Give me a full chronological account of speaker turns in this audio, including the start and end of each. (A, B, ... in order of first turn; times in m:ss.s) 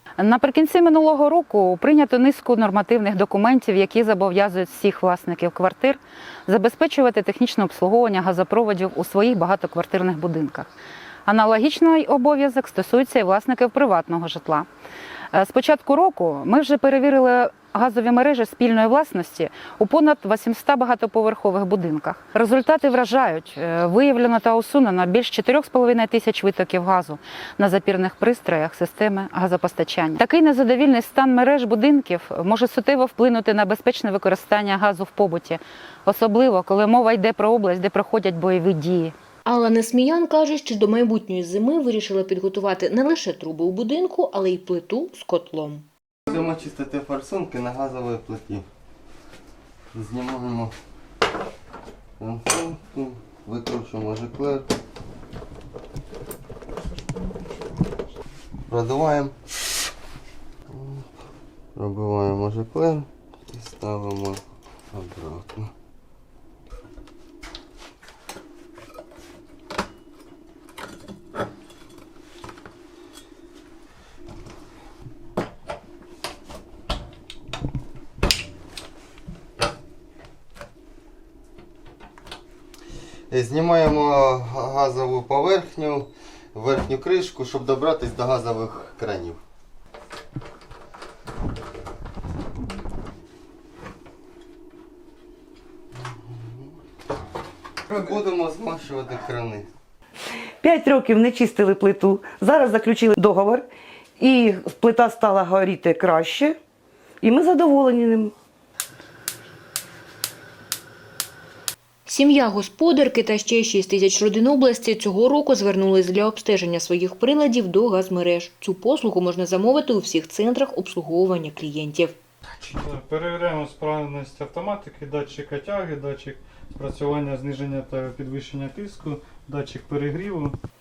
0:00.2-0:10.7 A
0:11.2-0:14.7 A
0:15.3-0:39.1 A
0:39.4-0:45.8 B
0:46.3-0:48.6 C
0:49.9-0:50.7 C
0:52.2-0:54.7 C
0:58.7-0:59.4 C
1:00.7-1:01.0 C
1:01.7-1:04.4 C
1:04.9-1:05.7 C
1:23.3-1:29.4 C
1:36.0-1:36.7 C
1:37.9-1:39.7 C
1:40.6-1:43.7 D
1:44.2-1:46.6 D
1:47.2-1:48.3 D
1:52.0-2:02.2 B
2:02.7-2:10.6 E